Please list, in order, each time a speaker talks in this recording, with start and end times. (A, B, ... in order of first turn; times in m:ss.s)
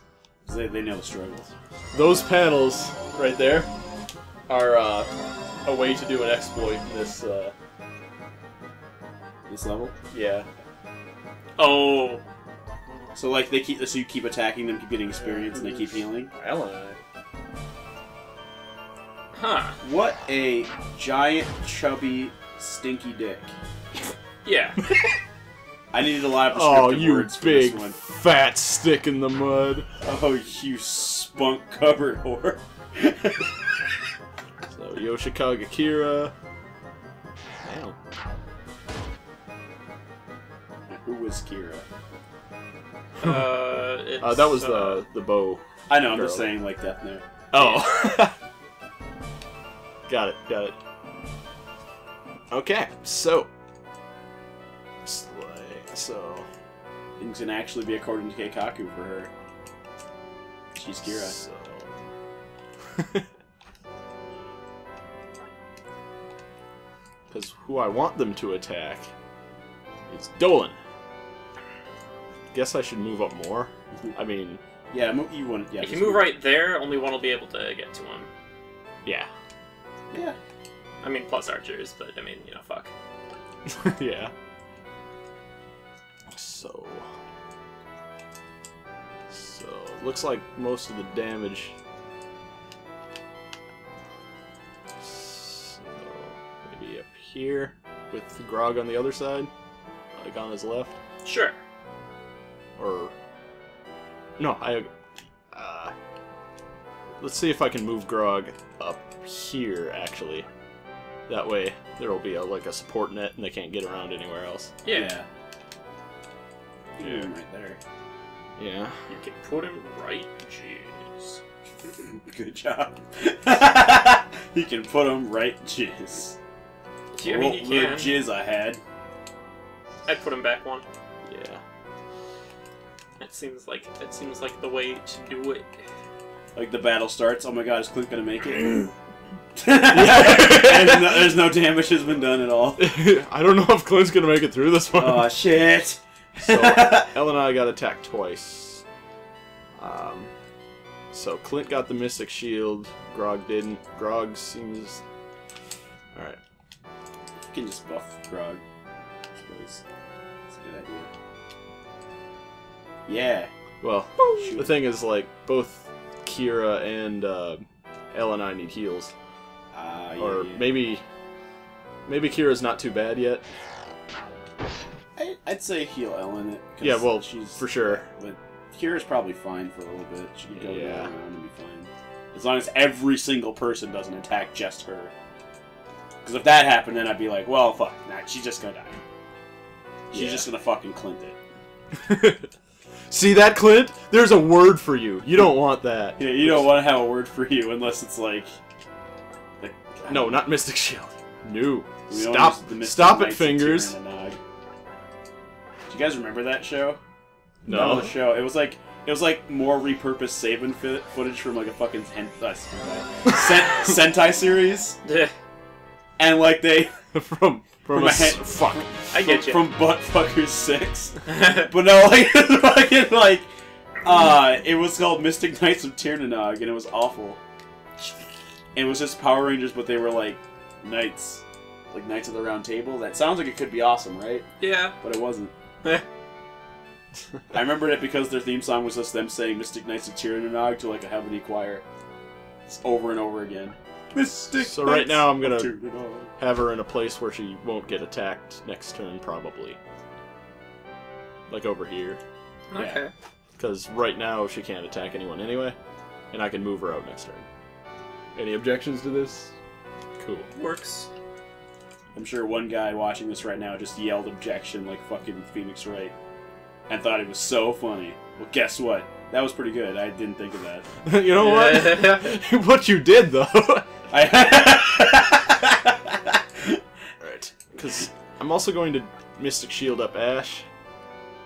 0:00.4-0:01.5 A
0:01.9-0:03.7 B
0:04.5-0:05.1 B
0:05.6-0:07.5 B
0:09.5-0:10.0 A
0:10.1-0:10.5 B
0:11.6-0:12.2 C
0:13.1-0:16.3 A
0:15.2-0:17.0 B
0:19.3-0:19.8 C
0:19.8-0:23.5 A
0:24.4-0:24.8 C
0:25.9-0:28.0 A
0:26.5-0:29.9 B
0:30.0-0:33.5 A
0:34.7-0:36.3 B
0:37.6-0:38.0 B
0:40.9-0:41.8 A
0:43.2-0:45.0 C
0:44.2-0:46.6 B
0:45.9-0:47.2 A
0:47.5-0:48.3 B
0:47.5-0:47.9 C
0:50.1-0:50.8 B
0:52.5-0:53.5 B
0:55.0-0:56.5 B
0:57.2-0:59.3 A
1:00.7-1:01.4 A
1:01.0-1:02.0 B
1:02.9-1:03.2 B
1:07.3-1:09.1 B
1:10.1-1:10.8 B
1:12.5-1:14.6 B
1:14.9-1:16.3 A
1:15.8-1:18.3 C
1:20.1-1:20.4 A
1:21.0-1:22.9 C
1:23.7-1:24.3 B
1:26.3-1:27.1 B
1:29.3-1:31.8 B
1:35.0-1:39.5 B
1:40.1-1:41.0 B
1:41.2-1:41.6 C
1:42.8-1:43.1 B
1:44.4-1:44.9 B
1:45.5-1:45.9 B
1:47.2-1:50.5 B
1:51.3-1:54.7 B
1:54.8-1:55.1 C
1:54.9-1:55.2 A
1:57.0-1:57.8 A
1:57.0-1:57.3 B
1:58.6-1:59.0 B
1:59.1-2:01.4 C
2:01.8-2:06.4 A
2:07.1-2:08.2 C
2:07.2-2:08.8 A
2:10.0-2:10.8 C
2:11.2-2:11.6 B
2:13.2-2:15.8 C
2:16.5-2:18.9 A
2:19.5-2:22.8 A
2:19.9-2:21.3 B
2:22.8-2:25.4 B
2:24.9-2:27.1 A
2:26.4-2:28.8 B
2:29.8-2:30.3 B
2:31.1-2:35.0 B
2:36.1-2:36.4 B
2:37.5-2:38.6 A
2:39.4-2:39.8 A
2:40.5-2:41.1 A
2:43.0-2:43.5 A
2:43.8-2:49.1 B
2:44.3-2:44.7 A
2:49.7-2:50.7 A
2:50.2-2:51.0 B
2:52.0-2:53.4 B
2:55.2-3:05.1 A
2:56.8-2:58.0 B
3:00.5-3:01.1 B
3:06.2-3:09.0 A
3:10.1-3:11.4 A
3:10.1-3:10.5 B
3:11.9-3:12.5 B
3:13.1-3:16.8 B
3:16.2-3:18.6 A
3:19.6-3:20.4 A
3:20.1-3:23.9 B
3:22.1-3:24.4 A
3:25.9-3:27.0 A
3:27.6-3:28.2 B
3:27.7-3:35.0 A
3:35.0-3:35.3 C
3:36.2-3:37.0 A
3:37.1-3:39.0 B
3:37.9-3:43.5 A
3:39.1-3:39.7 C
3:41.3-3:41.6 C
3:44.0-3:47.4 A
3:48.7-3:54.5 A
3:54.6-3:55.0 C
3:55.0-3:55.5 A
3:57.5-4:01.8 A
4:02.7-4:06.3 A
4:04.5-4:05.8 B
4:06.4-4:09.8 B
4:11.5-4:12.2 B
4:12.7-4:13.1 C
4:12.7-4:13.0 A
4:13.6-4:15.8 B
4:16.3-4:17.4 B
4:18.3-4:19.6 B
4:20.2-4:20.5 B
4:20.5-4:21.1 C
4:22.1-4:26.1 A
4:26.9-4:30.9 A
4:31.0-4:33.9 B
4:31.3-4:32.4 C
4:34.1-4:36.8 A
4:37.2-4:40.7 B